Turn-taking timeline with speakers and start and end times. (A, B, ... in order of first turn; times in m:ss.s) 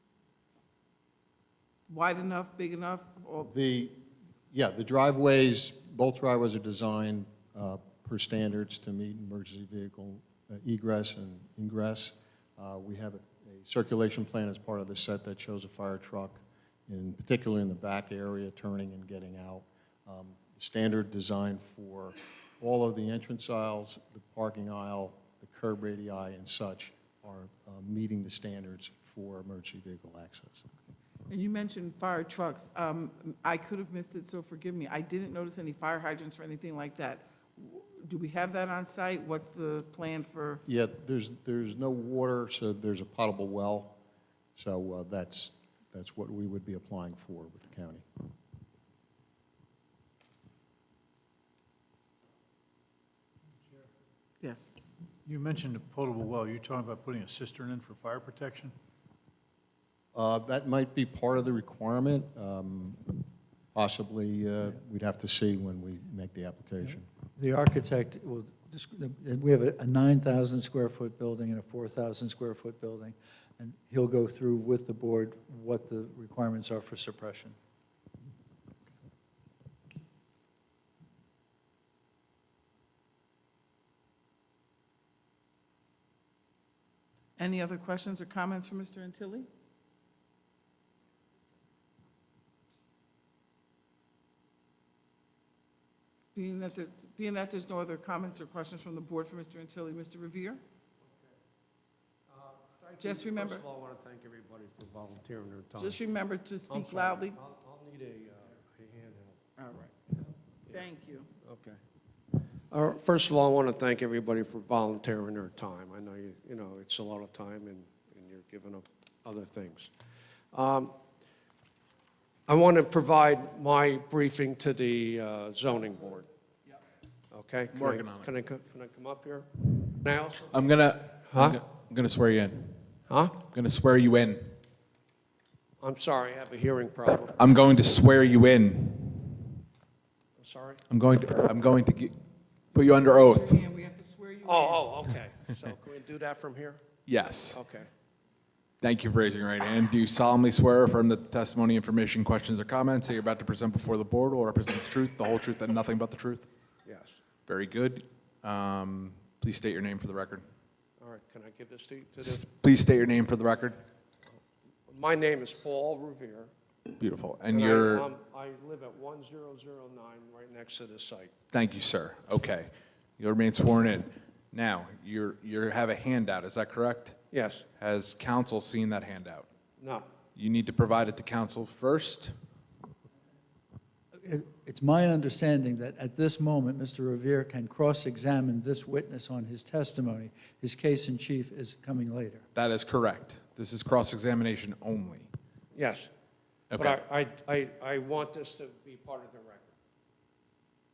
0:01.9-0:03.5 A
0:03.5-0:04.0 B
0:04.5-0:30.6 B
0:31.3-0:40.6 A
0:40.7-0:44.0 B
0:44.6-0:48.0 B
0:54.4-0:54.7 A
0:55.3-0:58.7 C
1:00.1-1:07.1 B
1:07.4-1:17.6 D
1:27.4-1:29.5 A
1:36.3-1:40.6 A
1:42.3-1:46.0 E
1:43.0-1:43.6 A
1:45.8-1:47.4 A
1:46.7-1:49.4 E
1:49.6-1:51.3 A
1:51.4-1:51.8 E
1:52.7-1:59.9 E
2:00.5-2:01.0 E
2:02.5-2:06.3 E
2:07.3-2:10.7 E
2:07.7-2:08.3 F
2:10.5-2:12.8 F
2:13.1-2:13.4 E
2:13.4-2:14.6 F
2:15.8-2:17.4 E
2:17.4-2:19.5 F
2:20.4-2:20.8 E
2:20.9-2:22.2 F
2:22.7-2:23.6 F
2:23.2-2:24.9 A
2:24.4-2:26.8 E
2:27.1-2:27.6 F
2:27.5-2:27.9 E
2:28.8-2:36.5 F
2:36.8-2:37.2 E
2:37.5-2:40.4 F
2:41.0-2:42.4 E
2:42.2-2:43.8 F
2:44.9-2:46.5 E
2:47.0-2:48.1 F
2:47.5-2:51.3 E
2:51.5-2:57.2 F
2:57.3-2:57.6 E
2:57.8-2:59.5 F
2:59.8-3:00.1 E
3:00.4-3:02.3 F
3:04.2-3:12.4 D
3:12.6-3:15.3 F
3:15.7-3:16.1 E
3:16.7-3:17.0 F
3:16.7-3:19.8 E